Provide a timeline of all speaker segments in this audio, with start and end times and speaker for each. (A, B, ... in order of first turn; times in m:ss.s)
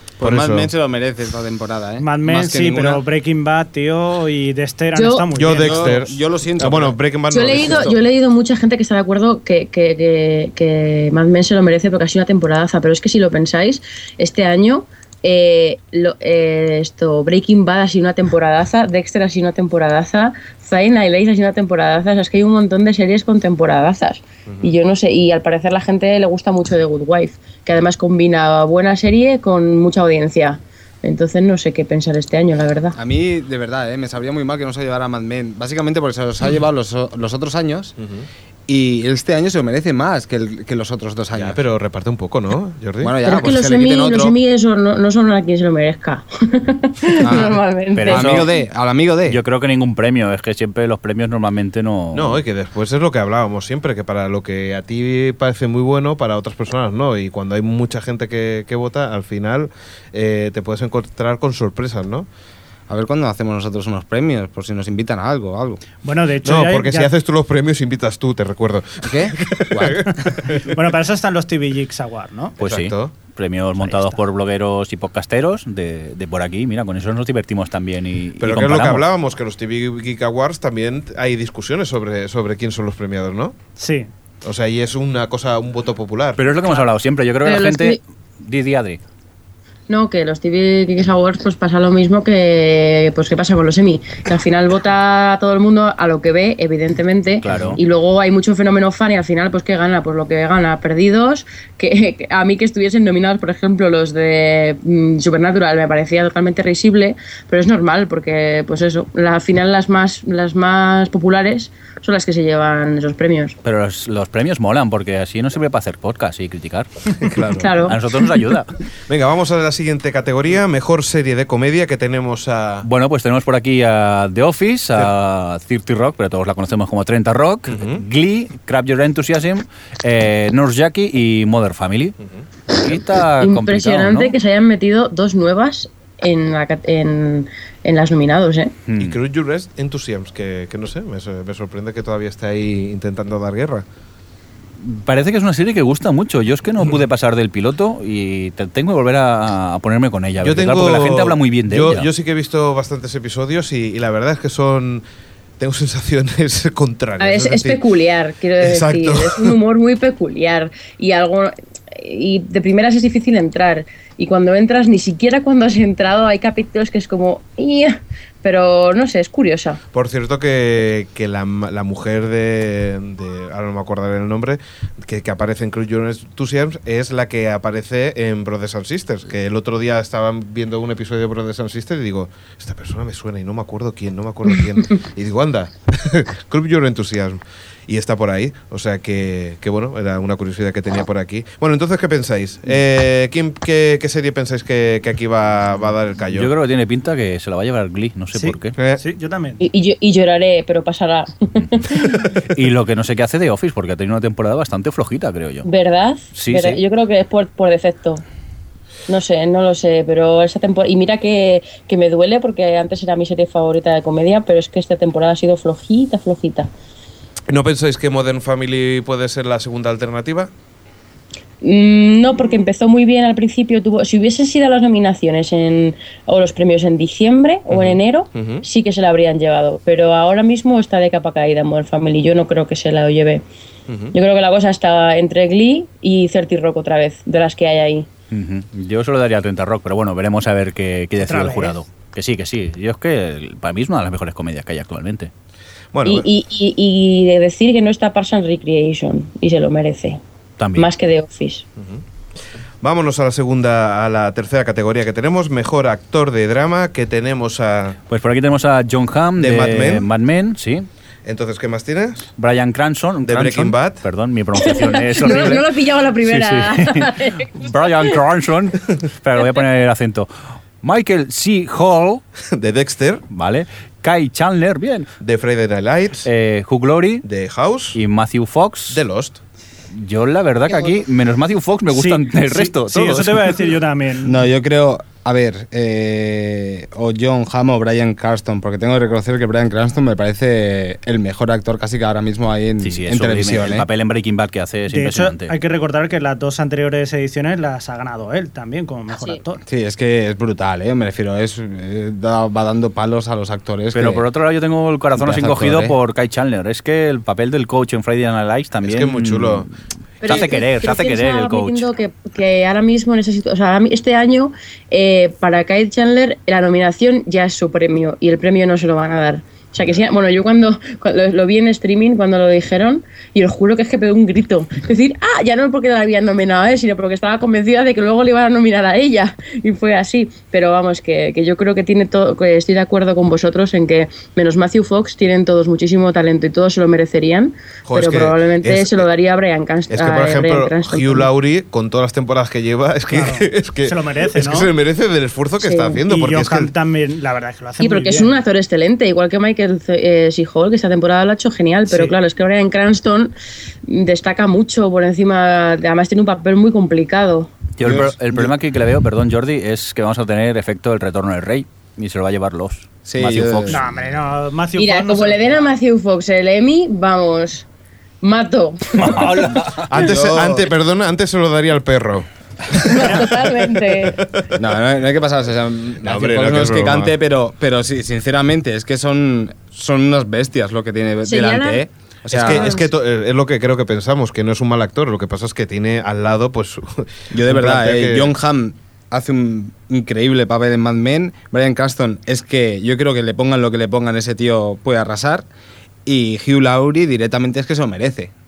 0:00.2-0:03.0 A
0:00.2-0:00.7 B
0:02.0-0:05.9 C
0:05.0-0:05.3 D
0:05.4-0:08.0 B
0:05.5-0:08.0 A
0:07.3-0:33.0 D
0:33.0-0:37.9 A
0:38.0-0:38.3 B
0:38.7-0:41.6 A
0:41.4-0:43.2 B
0:43.0-0:44.4 A
0:43.3-0:48.4 D
0:47.2-0:49.4 A
0:48.0-0:48.5 E
0:49.3-0:52.4 E
0:52.1-1:02.3 B
1:02.9-1:05.8 A
1:06.0-1:07.1 C
1:06.4-1:10.8 B
1:09.0-1:10.0 A
1:10.6-1:12.6 C
1:12.6-1:13.1 B
1:12.6-1:19.0 E
1:13.8-1:14.2 C
1:18.4-1:23.6 B
1:23.8-1:24.1 C
1:24.4-1:26.4 B
1:26.4-1:29.0 E
1:27.4-1:28.0 D
1:29.9-1:53.6 D
1:37.4-1:37.8 E
1:53.6-1:58.8 E
1:57.1-1:57.9 B
1:57.6-1:58.0 D
1:59.1-2:02.9 B
2:02.8-2:12.2 E
2:07.7-2:08.0 B
2:12.7-2:14.4 E
2:13.4-2:18.7 D
2:18.9-2:19.2 E
2:19.0-2:23.8 B
2:24.8-2:32.1 E
2:30.4-2:35.0 B
2:35.6-2:37.8 B
2:37.2-2:49.8 D
2:38.6-2:39.6 B
2:49.9-3:16.5 B
3:16.3-3:18.8 E
3:18.4-3:19.6 C
3:18.8-3:19.0 B
3:19.6-3:22.1 D
3:22.5-3:25.7 E
3:25.6-3:28.2 D
3:26.4-3:26.8 E
3:29.1-3:36.7 D
3:37.5-3:40.5 B
3:41.6-3:53.4 D
3:47.7-3:48.6 B
3:53.9-3:54.2 B
3:54.1-3:58.1 D
3:58.3-4:05.3 E
4:01.2-4:01.8 C
4:05.9-4:06.3 B
4:06.0-4:10.2 D
4:10.6-4:10.9 E
4:10.8-4:11.7 D
4:12.8-4:18.0 B
4:18.1-4:20.9 E
4:19.4-4:20.1 B
4:21.2-4:22.3 B
4:22.4-4:25.7 E
4:23.2-4:24.0 B
4:24.6-4:28.2 D
4:26.2-4:30.3 E
4:30.8-4:32.2 E
4:32.4-4:33.2 B
4:33.3-4:35.1 E
4:35.2-4:36.3 B
4:36.2-4:37.3 E
4:37.2-4:38.0 B
4:37.9-4:39.0 E
4:38.9-4:39.4 B
4:39.9-4:43.6 E
4:41.9-4:44.4 C
4:44.2-4:53.9 A
4:52.8-4:55.5 E
4:54.9-4:59.6 C
4:59.1-4:59.4 D
4:59.7-5:04.2 A
5:03.9-5:09.7 E
5:05.2-5:06.0 A
5:08.8-5:09.7 B
5:10.2-5:41.3 D
5:10.2-5:11.9 E
5:37.9-5:39.1 B
5:39.9-5:46.7 B
5:43.1-5:44.7 C
5:45.6-5:46.0 D
5:46.1-5:48.4 C
5:47.8-5:57.5 D
5:51.9-5:52.2 C
5:57.8-6:04.1 E
5:57.8-5:58.5 A
6:03.1-6:03.8 A
6:03.7-6:05.7 C
6:04.8-6:07.7 D
6:08.2-6:09.6 D
6:08.9-6:09.9 E
6:09.9-6:14.5 B
6:09.9-6:10.7 A
6:12.8-6:14.2 D
6:14.6-6:22.8 A
6:16.0-6:17.1 B
6:21.3-6:21.8 D
6:22.3-6:28.3 B
6:22.4-6:22.9 D
6:27.3-6:35.5 A
6:36.1-6:38.3 A